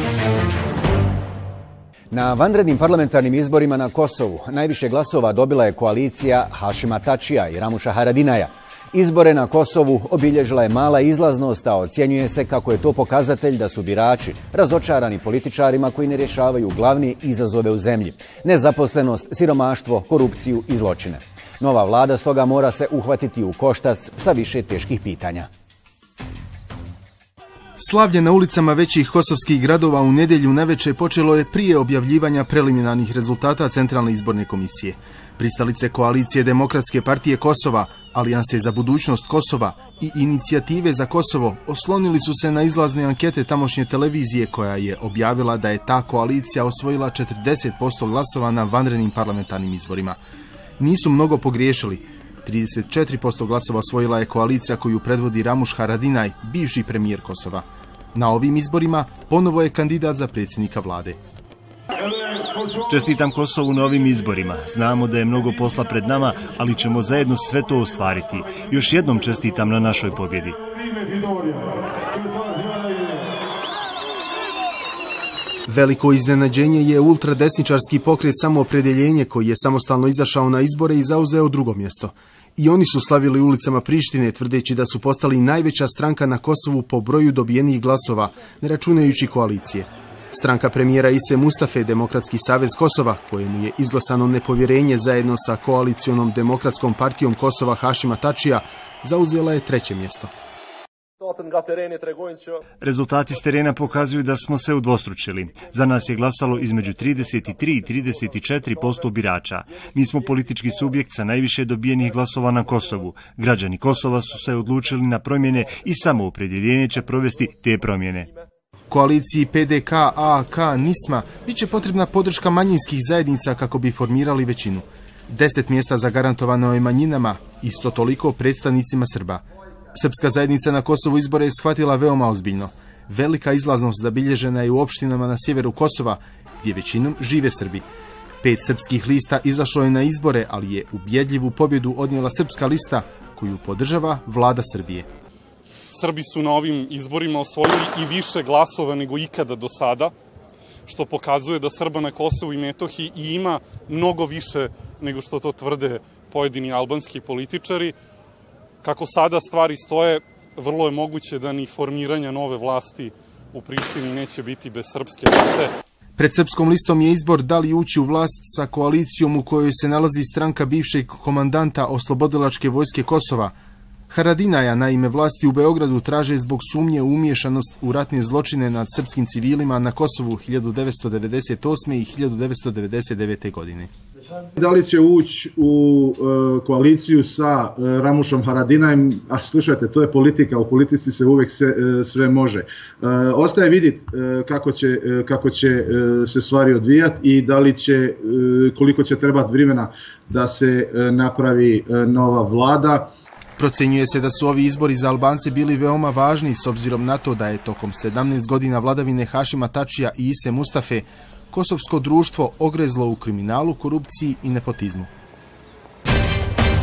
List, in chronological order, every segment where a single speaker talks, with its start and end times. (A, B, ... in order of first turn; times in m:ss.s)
0:02.1-0:25.5 A
0:27.8-0:50.2 B
0:50.8-1:01.2 B
1:02.8-1:10.6 C
1:15.7-1:40.3 B
1:42.8-1:58.3 C
1:58.9-2:09.4 B
2:09.9-2:17.8 B
2:18.4-2:25.1 B
2:25.9-2:30.1 D
2:30.8-2:37.9 D
2:38.8-2:45.7 D
2:46.2-2:53.5 B
2:54.1-3:03.9 B
3:04.6-3:23.1 E
3:23.6-3:35.1 B